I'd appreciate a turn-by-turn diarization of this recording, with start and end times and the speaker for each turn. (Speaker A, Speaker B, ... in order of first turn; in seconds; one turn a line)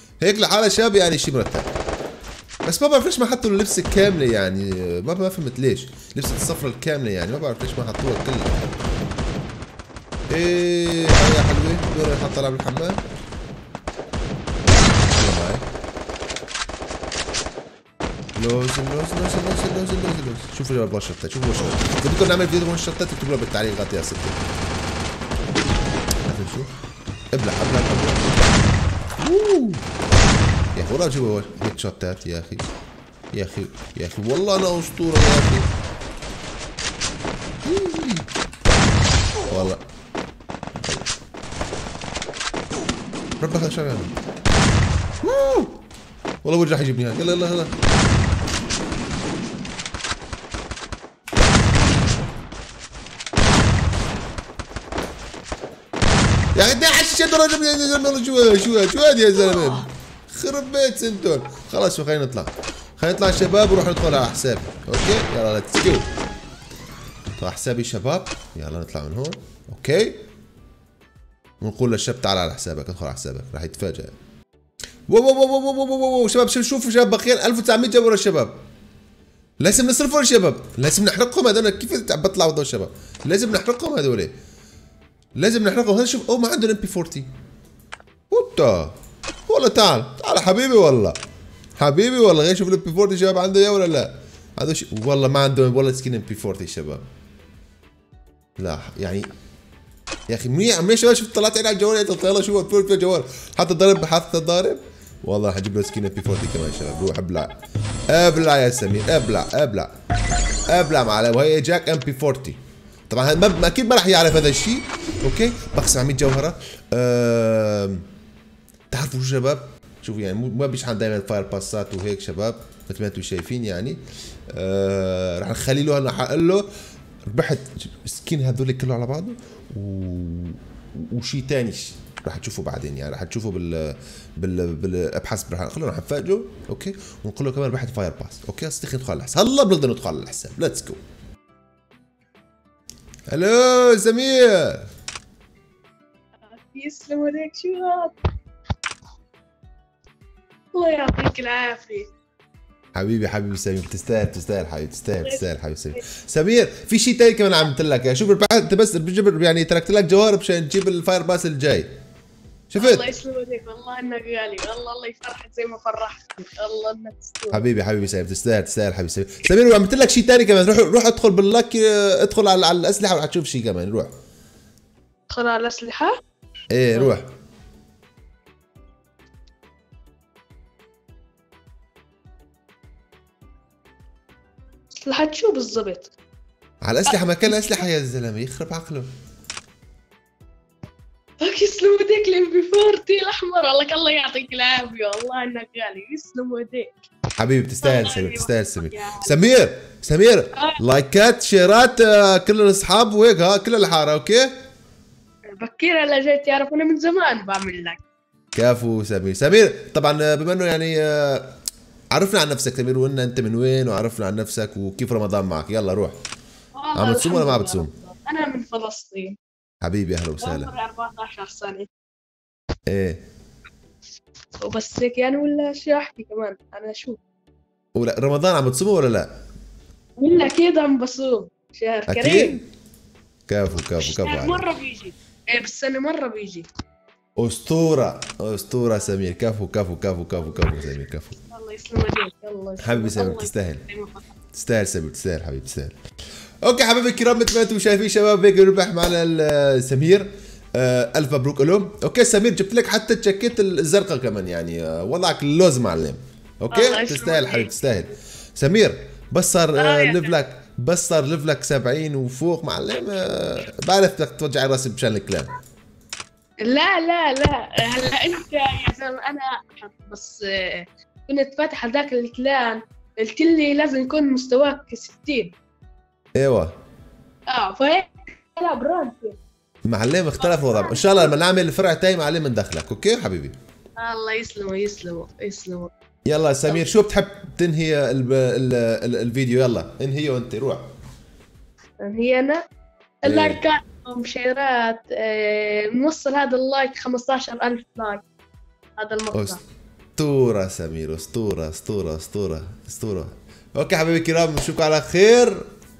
Speaker A: 0.2-1.7
Speaker A: 2.6-8.7
Speaker A: 10.3-13.0
Speaker A: 15.1-15.6
Speaker A: 18.4-24.4
Speaker A: 26.2-26.7
Speaker A: 27.3-28.5
Speaker A: 29.2-29.9
Speaker A: 30.7-32.7
Speaker A: 33.3-35.7
Speaker A: 37.6-38.3
Speaker A: 39.5-39.8
Speaker A: 40.8-41.1
Speaker A: 43.4-44.1
Speaker A: 45.2-45.8
Speaker A: 46.4-47.7
Speaker A: 56.5-66.1
Speaker A: 67.4-70.2
Speaker A: 71.6-74.1
Speaker A: 75.1-78.6
Speaker A: 79.6-84.3
Speaker A: 85.4-87.3
Speaker A: 88.3-88.9
Speaker A: 89.5-91.2
Speaker A: 91.8-97.0
Speaker A: 98.6-99.3
Speaker A: 100.3-107.5
Speaker A: 108.1-109.9
Speaker A: 110.7-118.0
Speaker A: 118.9-126.7
Speaker A: 127.3-141.0
Speaker A: 143.3-144.8
Speaker B: 146.5-148.2
Speaker B: 150.7-152.1
Speaker A: 152.9-161.9
Speaker A: 162.7-163.1
Speaker B: 162.8-167.6
Speaker A: 167.5-174.1
Speaker B: 175.3-176.2
Speaker A: 176.7-177.3
Speaker B: 185.0-186.1
Speaker A: 186.8-189.1
Speaker B: 187.0-187.8
Speaker B: 191.4-197.0
Speaker A: 197.4-204.5
Speaker B: 197.8-199.3
Speaker B: 200.5-200.8
Speaker B: 205.5-208.0
Speaker A: 208.5-211.6
Speaker A: 212.1-216.2
Speaker B: 216.8-219.4
Speaker A: 216.9-217.9
Speaker A: 219.8-220.7
Speaker B: 220.4-221.9
Speaker A: 222.9-223.2
Speaker B: 224.6-227.2
Speaker A: 227.9-229.3
Speaker B: 230.2-232.6
Speaker A: 232.1-232.6
Speaker A: 233.5-234.7
Speaker B: 233.8-236.7
Speaker A: 237.4-241.4
Speaker B: 241.5-244.3
Speaker A: 242.8-243.8
Speaker A: 244.5-245.9
Speaker A: 246.6-265.6
Speaker B: 256.7-257.7
Speaker B: 259.8-260.3
Speaker B: 266.6-275.5
Speaker A: 276.4-276.7
Speaker B: 277.5-279.4
Speaker A: 279.9-283.5
Speaker B: 280.4-281.4
Speaker B: 284.0-285.9
Speaker A: 286.2-290.8
Speaker B: 292.0-292.6
Speaker B: 293.2-298.2
Speaker A: 293.2-293.6
Speaker B: 299.0-299.6
Speaker A: 299.3-299.6
Speaker A: 300.2-305.6